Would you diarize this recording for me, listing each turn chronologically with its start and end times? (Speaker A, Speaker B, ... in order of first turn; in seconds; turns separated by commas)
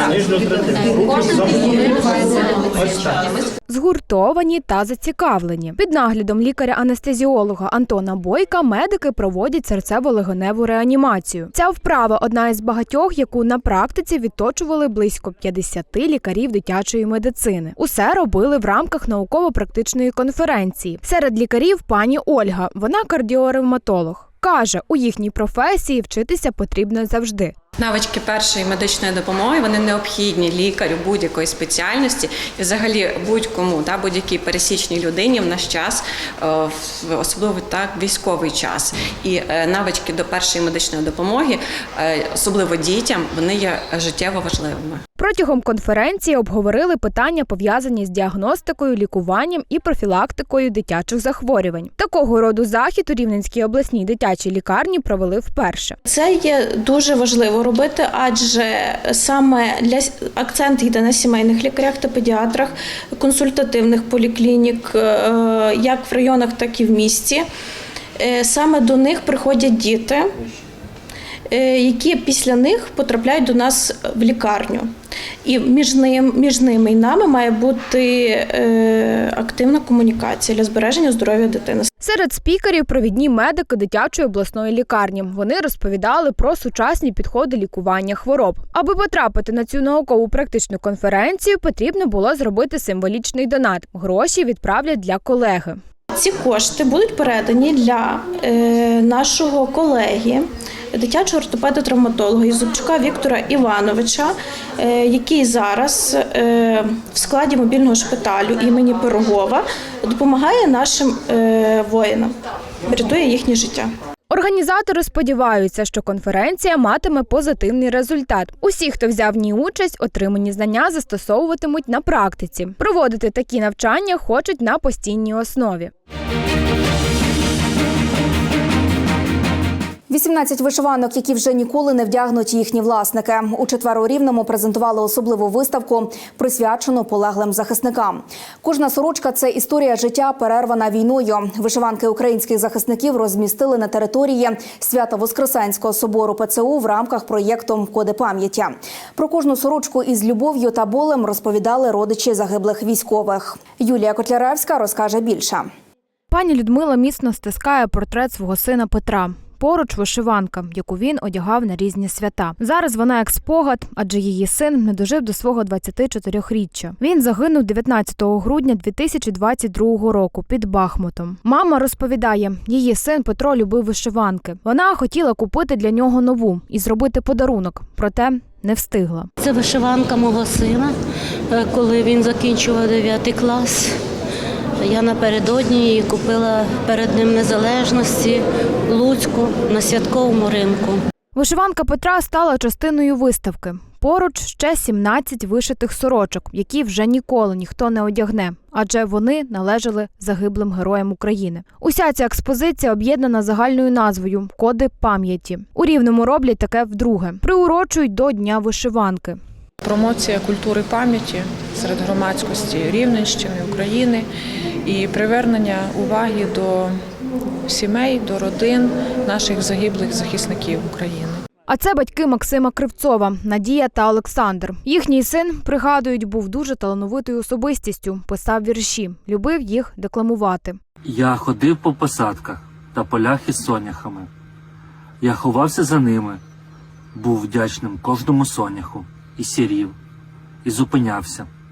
Speaker A: 3.7-27.5, Speaker B: 27.8-45.0, Speaker A: 45.2-56.0, Speaker C: 56.0-67.4, Speaker C: 68.2-70.3, Speaker C: 71.5-74.9, Speaker C: 75.4-81.9, Speaker A: 82.0-95.8, Speaker C: 96.2-112.3, Speaker C: 112.9-113.9, Speaker A: 114.3-125.9, Speaker D: 130.1-155.7, Speaker A: 156.3-179.3, Speaker E: 179.4-180.9, Speaker E: 181.5-183.9, Speaker E: 184.8-191.0, Speaker A: 191.3-209.4, Speaker F: 209.8-214.3, Speaker F: 214.8-217.0, Speaker F: 217.7-221.4, Speaker A: 221.7-230.8, Speaker G: 231.0-234.3, Speaker G: 235.2-236.4, Speaker G: 237.1-239.9, Speaker G: 240.6-241.5